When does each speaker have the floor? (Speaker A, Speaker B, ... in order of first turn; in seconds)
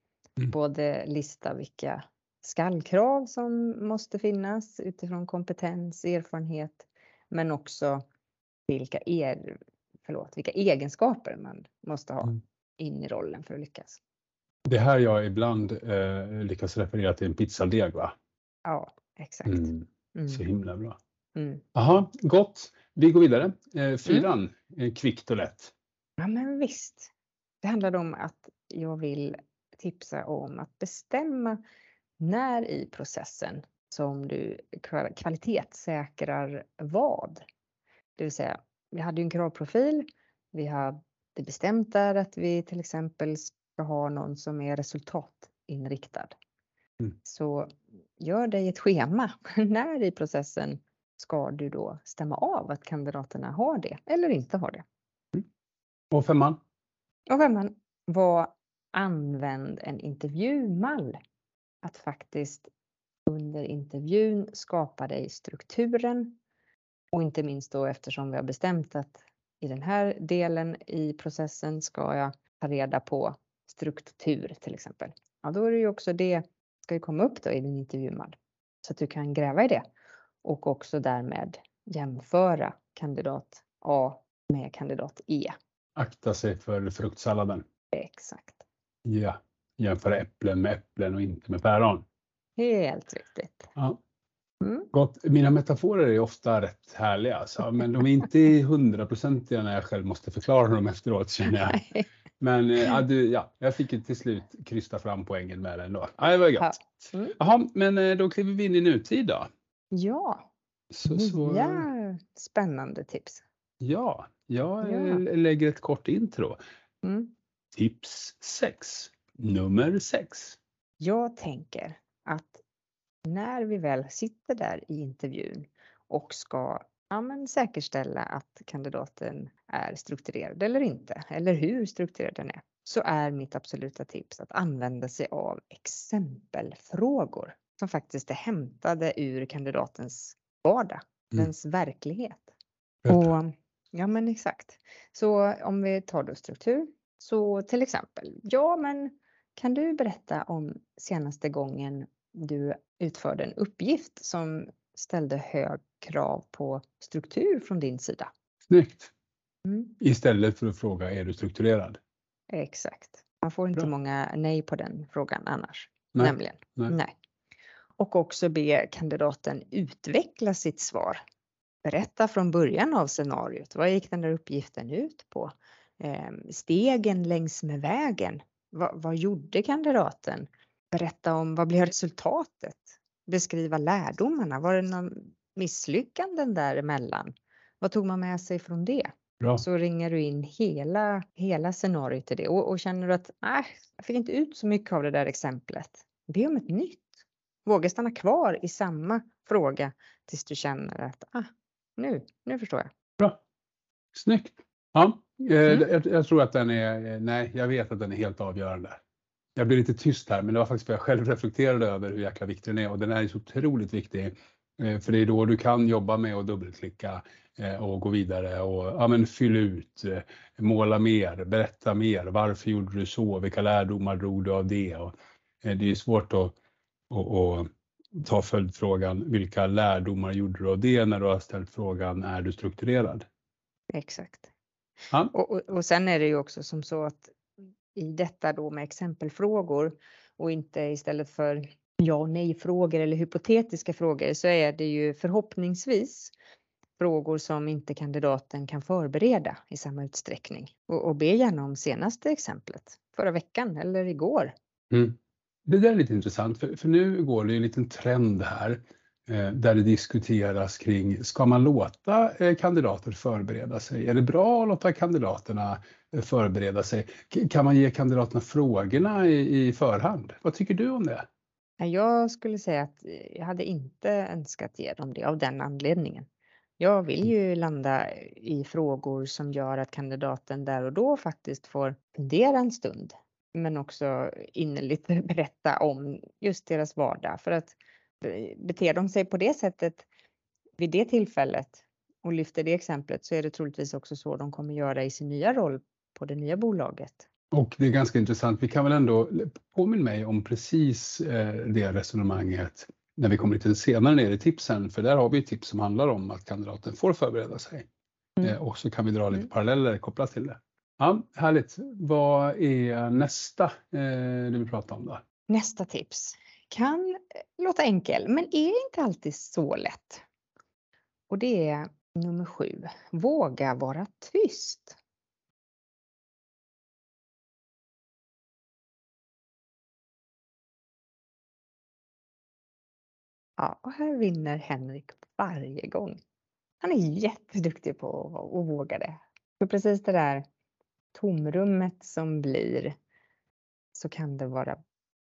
Speaker A: 0.5-8.0, 8.7-14.0, 18.7-20.4, 21.4-21.6, 26.2-27.1, 27.6-31.6, 32.2-37.4, 38.2-46.3, 47.2-54.8, 57.3-61.2, 61.8-62.7, 63.3-66.4, 67.1-79.8, 80.4-85.5, 87.9-88.6, 92.6-93.7, 94.6-94.9, 101.5-102.1, 106.6-107.4, 109.9-110.5, 111.1-113.4, 114.8-115.2, 117.0-117.3, 121.0-122.6, 123.2-142.5, 143.1-158.3, 159.7-159.9, 162.5-167.1, 168.0-171.2, 171.8-202.9, 233.9-234.5, 235.3-237.3, 237.9-246.3, 247.0-254.5, 271.8-276.3, 276.8-290.1, 290.8-297.3, 315.5-320.2, 321.3-325.0, 333.6-336.2, 336.8-340.5, 341.1-342.9, 343.9-344.8
Speaker B: 14.7-18.1, 19.5-21.0, 21.8-25.7, 56.1-56.6, 86.0-87.7, 89.1-92.0, 94.9-101.8, 102.4-109.5, 110.9-111.9, 113.8-116.6, 117.7-120.6, 143.0-143.3, 158.7-159.1, 160.0-162.0, 166.1-166.9, 204.1-209.0, 209.6-226.6, 227.1-233.3, 254.9-271.3, 297.5-307.9, 308.4-315.2